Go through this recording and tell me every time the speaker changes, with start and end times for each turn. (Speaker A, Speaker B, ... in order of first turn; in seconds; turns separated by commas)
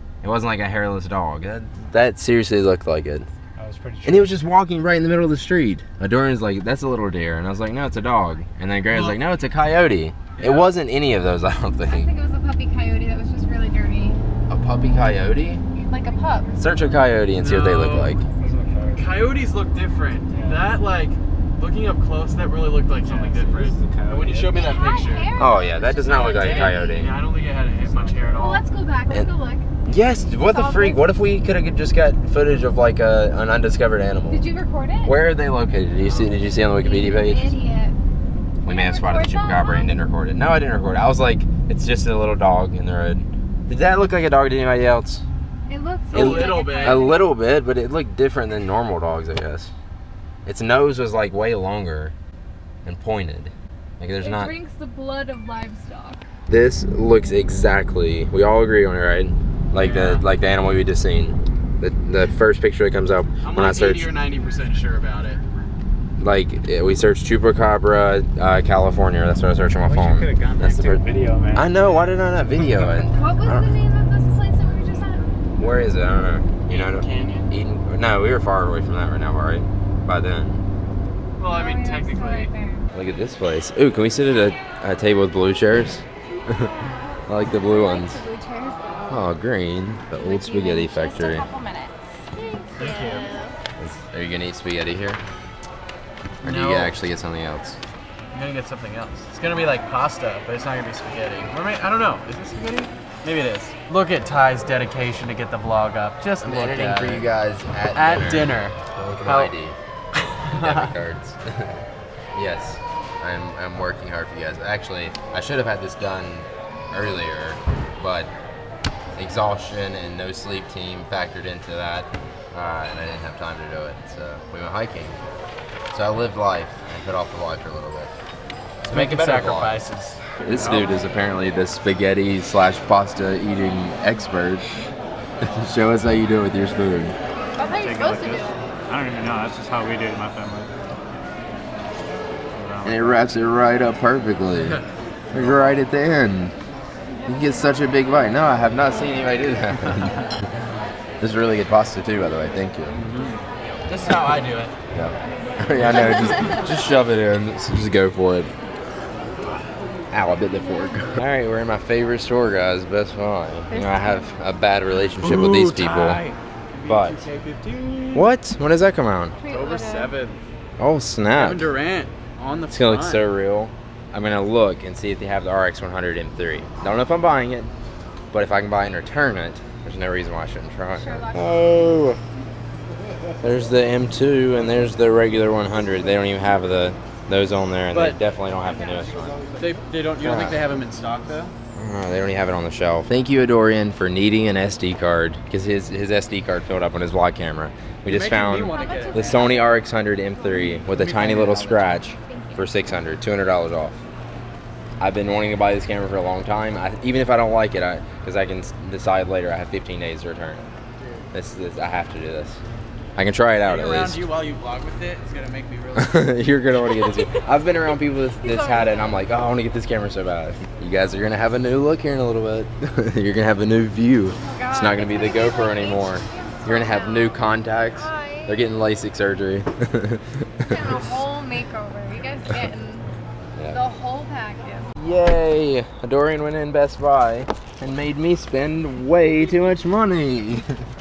Speaker A: 0.2-3.3, Speaker B: 3.6-4.4, Speaker A: 4.0-12.1, Speaker C: 8.9-9.2, Speaker C: 10.4-10.7, Speaker D: 11.9-14.2, Speaker A: 14.5-15.6, Speaker D: 15.7-16.6, Speaker A: 16.6-18.2, Speaker C: 17.4-18.2, Speaker B: 18.3-19.1, Speaker C: 18.9-25.3, Speaker B: 20.3-20.7, Speaker B: 23.0-24.6, Speaker D: 24.5-27.1, Speaker A: 25.4-27.1, Speaker C: 26.1-28.6, Speaker B: 27.3-28.6, Speaker D: 28.4-29.7, Speaker A: 29.8-34.5, Speaker D: 30.5-31.1, Speaker D: 34.3-35.2, Speaker A: 35.0-37.6, Speaker C: 36.0-36.3, Speaker D: 36.6-38.0, Speaker A: 38.6-45.2, Speaker D: 38.7-40.0, Speaker D: 45.7-47.2, Speaker C: 46.1-47.1, Speaker A: 46.1-49.7, Speaker A: 50.5-52.1, Speaker A: 52.9-54.5, Speaker D: 54.2-56.2, Speaker A: 56.5-64.1, Speaker C: 59.7-60.2, Speaker C: 63.4-65.4, Speaker A: 66.2-71.0, Speaker B: 69.8-72.1, Speaker A: 71.5-73.7, Speaker D: 73.0-75.3, Speaker A: 75.6-80.6, Speaker C: 76.7-77.5, Speaker D: 77.2-77.5, Speaker C: 81.4-82.5, Speaker D: 81.4-82.9, Speaker A: 82.9-86.6, Speaker D: 86.4-89.3, Speaker A: 87.3-88.2, Speaker A: 89.1-91.5, Speaker D: 90.2-93.6, Speaker C: 92.8-93.3, Speaker A: 93.8-95.2, Speaker C: 96.4-97.0, Speaker A: 96.4-97.8, Speaker C: 98.3-107.3, Speaker A: 106.4-109.8, Speaker C: 108.0-109.5, Speaker C: 110.4-110.9, Speaker A: 110.5-111.7, Speaker A: 112.3-118.3, Speaker A: 119.2-125.2, Speaker A: 125.9-128.1, Speaker C: 128.8-131.0, Speaker A: 128.9-129.8, Speaker A: 130.4-134.7, Speaker A: 135.4-137.1, Speaker D: 137.5-138.6, Speaker B: 137.7-140.8, Speaker B: 142.5-143.3, Speaker A: 142.8-146.6, Speaker C: 144.6-144.8, Speaker A: 147.3-150.2, Speaker A: 151.2-153.0, Speaker C: 152.9-154.7, Speaker A: 154.9-158.5, Speaker A: 160.1-166.2, Speaker D: 163.7-164.3, Speaker C: 165.2-168.3, Speaker A: 166.9-167.2, Speaker A: 168.1-169.4, Speaker D: 169.4-170.1, Speaker C: 169.4-170.4, Speaker A: 170.8-171.7, Speaker C: 171.3-173.2, Speaker A: 172.7-177.7, Speaker A: 178.3-182.2, Speaker D: 180.9-181.8, Speaker A: 183.4-189.4, Speaker C: 187.9-188.2, Speaker D: 188.6-189.6, Speaker C: 189.6-191.6, Speaker A: 190.2-190.6, Speaker A: 191.8-204.0, Speaker C: 198.1-199.5, Speaker D: 198.4-200.8, Speaker B: 200.8-202.0, Speaker D: 202.1-202.7, Speaker A: 205.0-210.7, Speaker C: 211.0-211.3, Speaker A: 211.3-212.6, Speaker A: 213.2-214.2, Speaker C: 213.6-216.5, Speaker A: 215.9-231.2, Speaker D: 216.9-217.4, Speaker D: 218.4-219.2, Speaker D: 224.4-228.7, Speaker D: 230.7-233.1, Speaker A: 233.6-233.8, Speaker D: 233.7-234.9, Speaker A: 235.0-240.8